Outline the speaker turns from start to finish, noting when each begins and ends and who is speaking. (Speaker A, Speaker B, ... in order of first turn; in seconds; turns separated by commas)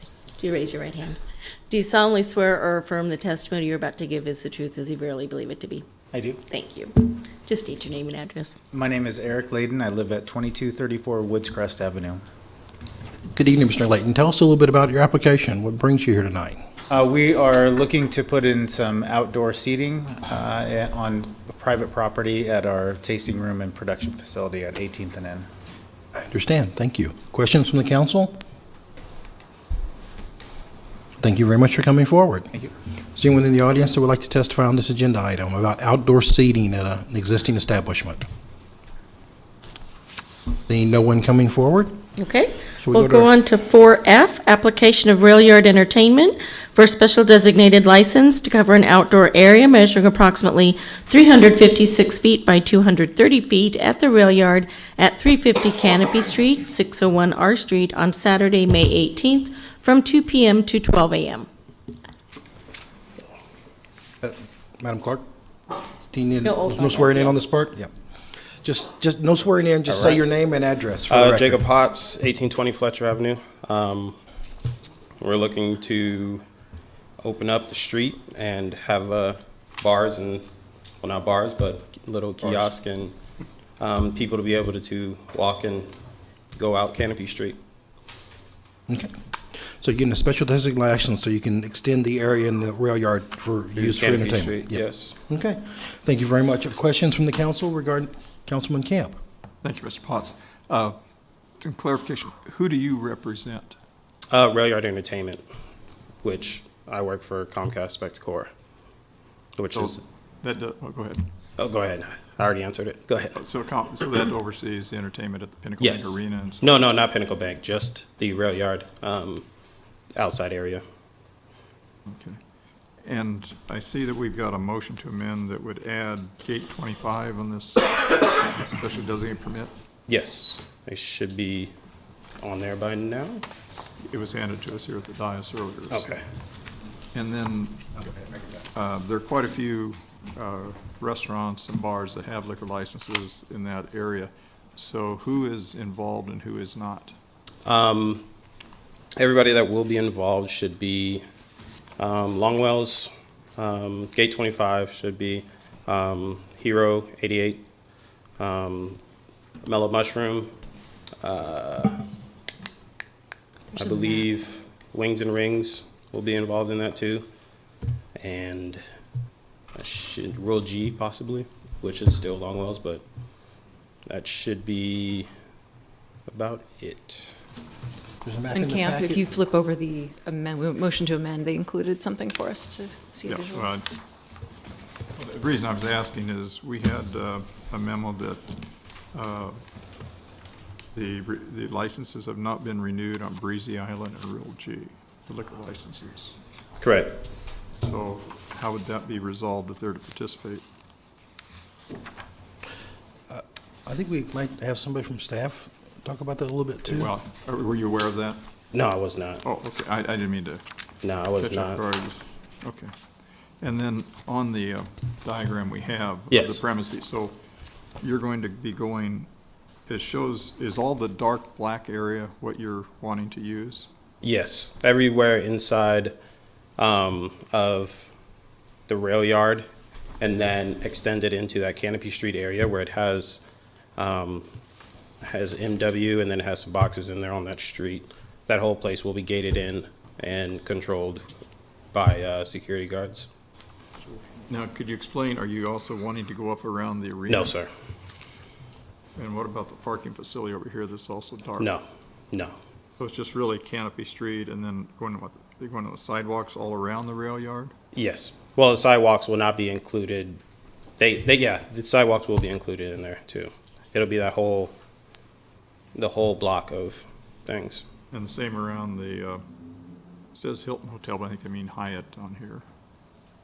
Speaker A: 0.4-1.2, Speaker A: 1.7-5.8, Speaker B: 6.1-6.4, Speaker A: 6.5-8.6, Speaker B: 8.7-12.2, Speaker C: 13.3-16.6, Speaker B: 16.9-25.5, Speaker C: 26.1-28.4, Speaker C: 31.2-32.5, Speaker C: 33.1-38.2, Speaker C: 40.7-41.9, Speaker A: 42.2-61.5, Speaker C: 42.8-43.3, Speaker C: 64.2-65.2, Speaker C: 66.1-67.9, Speaker A: 66.4-67.4, Speaker C: 68.6-71.6, Speaker D: 69.9-70.2, Speaker D: 71.1-74.2, Speaker D: 75.2-76.4, Speaker D: 77.2-80.5, Speaker D: 81.0-83.1, Speaker D: 83.8-85.9, Speaker D: 86.5-87.6, Speaker C: 89.6-99.1, Speaker D: 93.7-95.2, Speaker E: 99.6-101.0, Speaker E: 101.6-103.8, Speaker D: 104.3-105.4, Speaker D: 106.2-108.5, Speaker D: 109.6-110.0, Speaker E: 109.7-111.2, Speaker D: 111.6-113.4, Speaker E: 113.3-116.8, Speaker D: 115.8-119.4, Speaker D: 120.2-120.8, Speaker E: 122.1-122.4, Speaker E: 123.0-129.7, Speaker D: 130.1-131.7, Speaker D: 132.4-133.4, Speaker E: 134.1-136.2, Speaker D: 135.9-136.2, Speaker E: 137.1-137.9, Speaker E: 138.7-147.1, Speaker D: 147.6-148.2, Speaker D: 149.2-151.2, Speaker D: 152.0-157.6, Speaker D: 158.4-159.0, Speaker D: 159.6-160.5, Speaker D: 161.2-162.0, Speaker F: 163.7-164.2, Speaker D: 163.8-167.2, Speaker D: 168.2-168.8, Speaker D: 169.7-173.0, Speaker D: 174.1-175.3, Speaker D: 176.3-177.4, Speaker C: 178.2-179.2, Speaker F: 178.5-183.7, Speaker E: 183.2-183.8, Speaker E: 185.2-188.5, Speaker E: 189.1-189.6, Speaker E: 190.9-196.3, Speaker D: 196.8-197.1, Speaker E: 197.8-200.6, Speaker C: 203.3-207.2, Speaker E: 206.9-208.4, Speaker D: 208.7-209.4, Speaker E: 209.4-210.6, Speaker D: 211.0-211.8, Speaker E: 211.4-212.9, Speaker E: 213.6-217.3, Speaker D: 216.3-216.6, Speaker E: 218.0-219.3, Speaker E: 219.9-223.9, Speaker D: 224.2-226.1, Speaker D: 226.8-228.1, Speaker D: 228.9-229.7, Speaker D: 230.2-233.4, Speaker D: 234.0-234.5, Speaker D: 235.2-241.3, Speaker D: 241.9-243.3, Speaker E: 244.4-247.5, Speaker D: 247.3-247.7, Speaker E: 249.2-251.7, Speaker D: 251.6-252.5, Speaker E: 253.0-257.7, Speaker D: 257.9-260.4, Speaker D: 261.0-264.7, Speaker D: 265.9-267.8, Speaker E: 268.1-269.4, Speaker E: 270.3-272.6